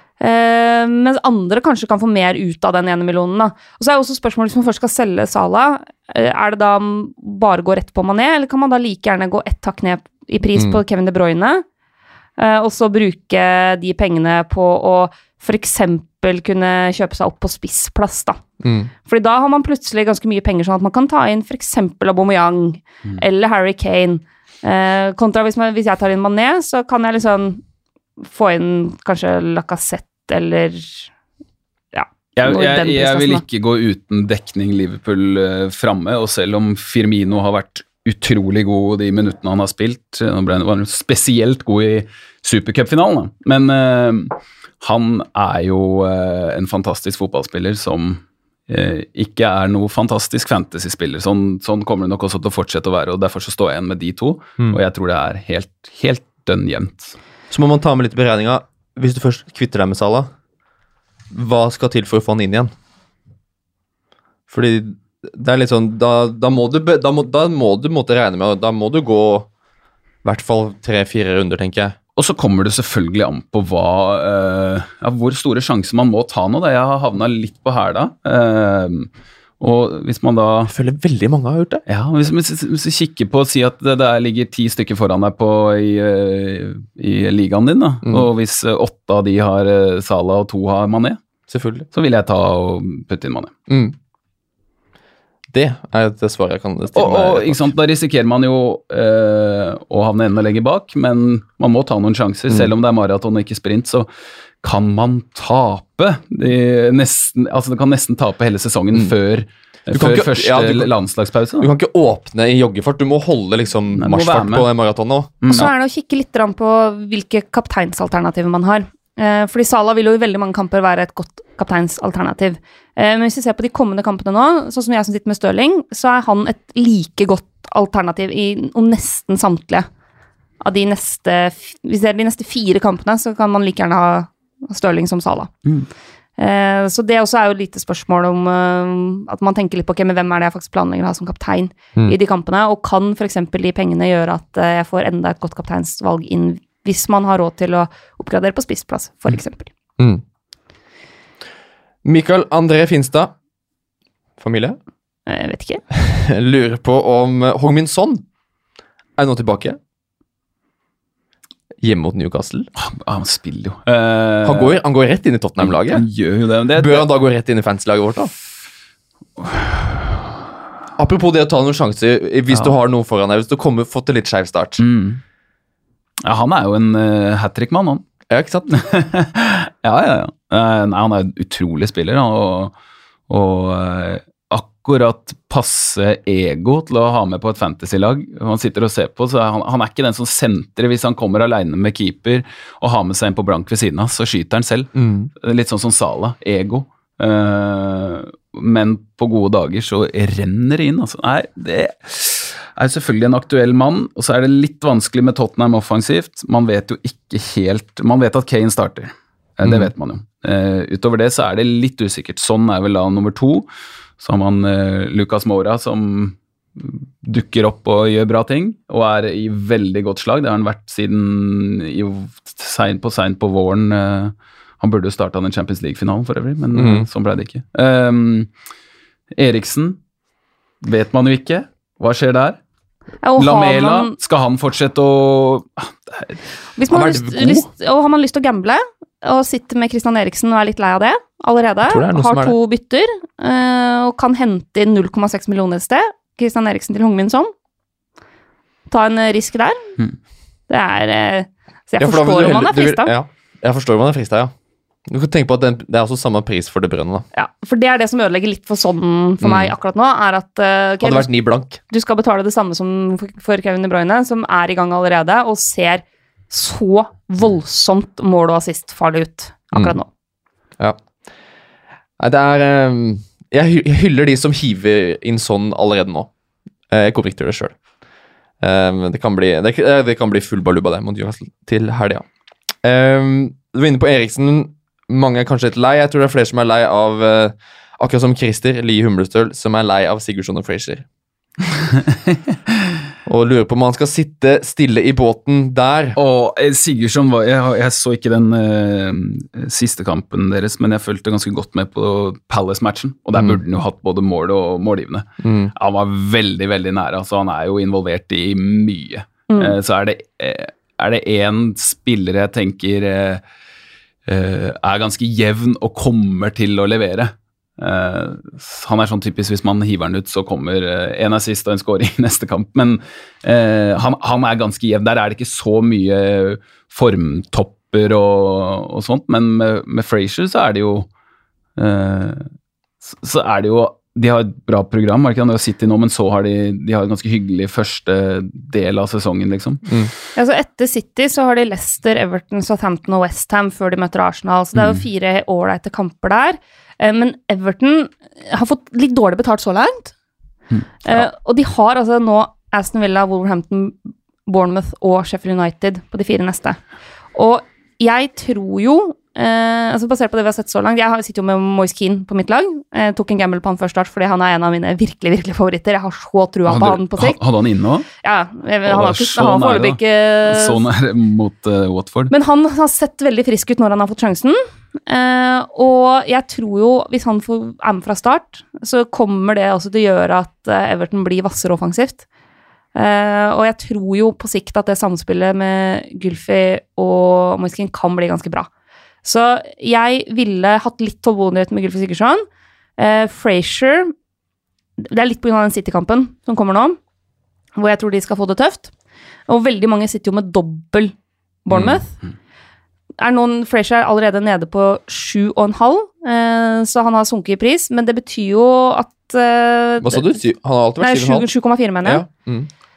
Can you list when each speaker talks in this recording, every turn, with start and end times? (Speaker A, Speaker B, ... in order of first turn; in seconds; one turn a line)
Speaker A: 0.2-11.6
Speaker A: 12.4-18.4
Speaker B: 18.6-18.9
Speaker A: 19.1-27.6
Speaker A: 28.2-31.1
Speaker A: 31.9-33.4
Speaker C: 32.4-57.1
Speaker B: 57.5-60.3
Speaker B: 61.3-62.7
Speaker B: 64.5-69.5
Speaker B: 70.2-72.0
Speaker C: 72.2-79.1
Speaker C: 79.6-80.7
Speaker B: 80.7-81.8
Speaker C: 81.9-91.2
Speaker B: 91.5-91.8
Speaker C: 91.9-93.5
Speaker B: 93.7-94.0
Speaker B: 95.5-97.7
Speaker C: 96.9-104.1
Speaker C: 104.6-111.7
Speaker B: 109.9-110.9
Speaker B: 111.6-115.7
Speaker C: 114.0-114.7
Speaker C: 115.4-115.7
Speaker A: 115.5-129.9
Speaker A: 130.6-135.5
Speaker A: 136.4-149.7
Speaker B: 150.0-150.2
Speaker B: 152.0-153.3
Speaker B: 154.4-154.8
Speaker A: 155.3-155.8
Speaker B: 155.9-158.2
Speaker B: 159.2-159.8
Speaker B: 161.8-162.7
Speaker C: 162.8-164.8
Speaker B: 164.4-166.0
Speaker C: 165.6-167.1
Speaker B: 166.8-168.3
Speaker C: 169.4-170.1
Speaker B: 171.0-174.8
Speaker C: 172.5-172.8
Speaker C: 174.8-175.2
Speaker C: 176.2-178.0
Speaker B: 178.3-178.7
Speaker C: 178.7-182.7
Speaker C: 183.3-213.7
Speaker B: 194.9-195.3
Speaker B: 209.6-209.9
Speaker C: 214.2-228.5
Speaker B: 226.7-227.1
Speaker C: 229.3-230.0
Speaker C: 230.8-232.6
Speaker A: 233.2-234.1
Speaker C: 233.4-236.4
Speaker A: 236.8-247.5
Speaker B: 236.9-237.7
Speaker B: 241.8-242.6
Speaker A: 248.9-249.9
Speaker A: 250.7-253.1
Speaker B: 252.0-254.5
Speaker B: 255.1-257.2
Speaker A: 257.3-270.1
Speaker B: 259.4-259.7
Speaker B: 261.0-261.8
Speaker B: 272.2-276.3
Speaker B: 276.9-277.7
Speaker B: 278.6-282.2
Speaker B: 282.8-291.0
Speaker C: 291.9-292.5
Speaker B: 293.2-296.2
Speaker C: 296.1-313.4
Speaker B: 305.4-305.7
Speaker A: 309.5-309.7
Speaker C: 314.2-331.1
Speaker C: 331.8-332.5
Speaker C: 333.0-339.9
Speaker A: 340.4-350.1
Speaker C: 344.8-345.0
Speaker A: 351.0-356.8
Speaker A: 357.3-367.4
Speaker C: 366.7-368.1
Speaker A: 368.2-370.8
Speaker C: 368.9-372.3
Speaker A: 372.3-382.2
Speaker A: 382.9-388.7
Speaker A: 389.2-392.4
Speaker A: 393.0-394.1
Speaker A: 395.0-397.0
Speaker A: 397.7-398.9
Speaker A: 399.5-401.1
Speaker A: 401.6-402.1
Speaker A: 403.2-410.3
Speaker B: 410.0-411.5
Speaker A: 411.0-412.2
Speaker B: 412.0-412.7